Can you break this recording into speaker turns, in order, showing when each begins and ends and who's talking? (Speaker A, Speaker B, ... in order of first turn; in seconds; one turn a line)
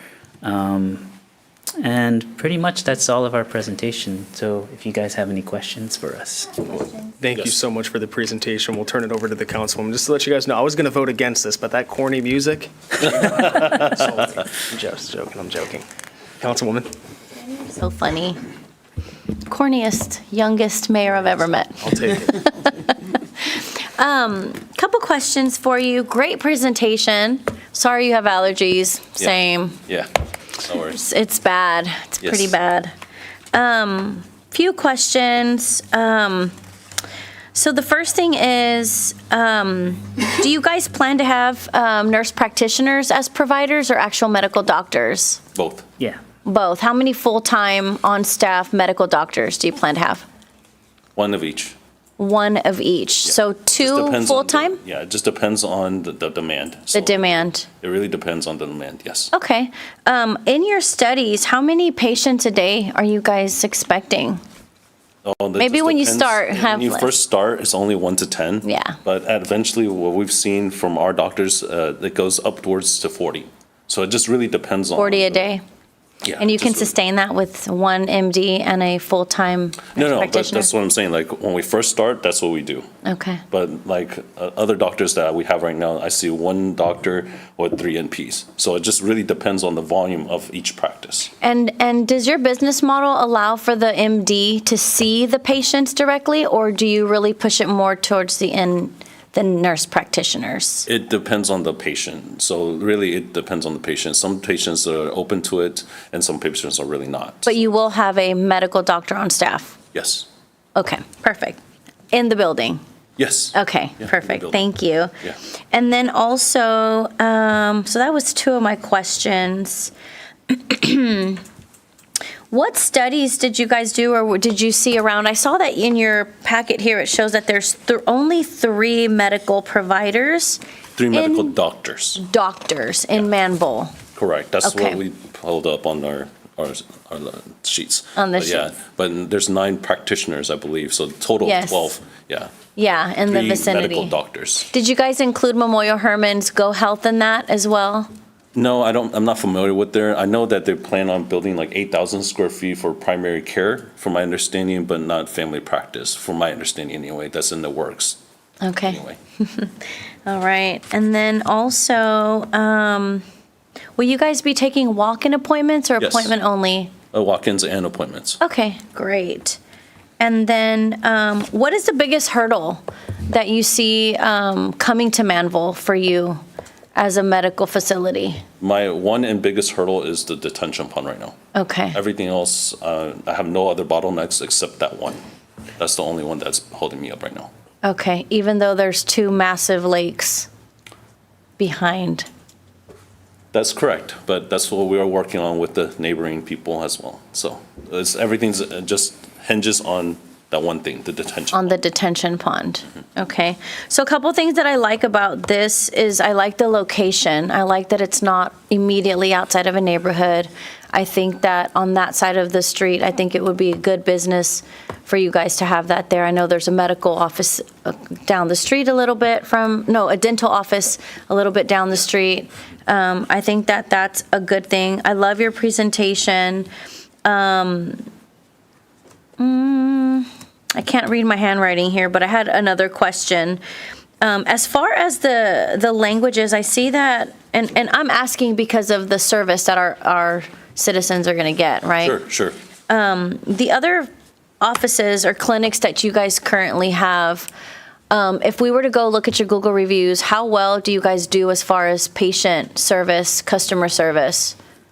Speaker A: 0.4-1.1
Speaker A: 1.8-6.7
Speaker B: 7.2-15.9
Speaker C: 13.6-13.9
Speaker B: 16.4-16.9
Speaker D: 17.5-18.4
Speaker D: 19.4-29.8
Speaker B: 21.8-22.5
Speaker C: 29.2-31.0
Speaker D: 30.9-32.9
Speaker C: 32.2-32.5
Speaker D: 33.5-36.5
Speaker D: 37.5-45.4
Speaker C: 45.5-45.9
Speaker D: 46.4-50.2
Speaker C: 51.1-51.8
Speaker D: 52.2-54.8
Speaker C: 53.2-59.3
Speaker D: 56.9-57.7
Speaker D: 59.3-64.4
Speaker C: 65.2-75.5
Speaker D: 65.6-67.1
Speaker D: 68.6-69.0
Speaker D: 75.0-75.6
Speaker C: 76.2-76.9
Speaker D: 76.4-80.7
Speaker C: 79.9-82.8
Speaker D: 83.0-83.4
Speaker C: 83.5-91.3
Speaker D: 91.4-100.9
Speaker C: 100.8-107.5
Speaker D: 107.5-109.8
Speaker C: 109.9-110.3
Speaker D: 110.8-111.6
Speaker D: 112.1-112.8
Speaker C: 113.2-114.6
Speaker D: 113.5-115.1
Speaker D: 115.7-119.9
Speaker D: 120.5-121.4
Speaker D: 122.5-130.6
Speaker C: 131.0-132.2
Speaker D: 131.1-131.6
Speaker D: 132.2-133.9
Speaker C: 134.2-142.5
Speaker D: 134.6-135.0
Speaker D: 138.2-138.7
Speaker D: 141.4-142.0
Speaker D: 142.8-144.1
Speaker C: 143.3-144.7
Speaker D: 144.7-148.1
Speaker C: 148.5-158.2
Speaker D: 158.6-159.7
Speaker C: 158.8-159.2
Speaker D: 160.2-163.2
Speaker D: 164.0-166.9
Speaker C: 166.0-166.3
Speaker C: 167.1-168.4
Speaker D: 168.4-169.6
Speaker D: 170.2-176.4
Speaker D: 176.9-178.4
Speaker C: 178.6-181.3
Speaker D: 181.5-182.0
Speaker C: 181.9-185.2
Speaker C: 185.8-187.5
Speaker D: 187.8-190.5
Speaker D: 191.6-192.3
Speaker C: 193.5-201.8
Speaker D: 201.5-226.7
Speaker D: 227.2-228.0
Speaker D: 229.4-233.6
Speaker D: 234.2-242.2
Speaker C: 242.0-242.6
Speaker D: 242.9-244.1
Speaker D: 244.6-247.5
Speaker D: 248.1-254.6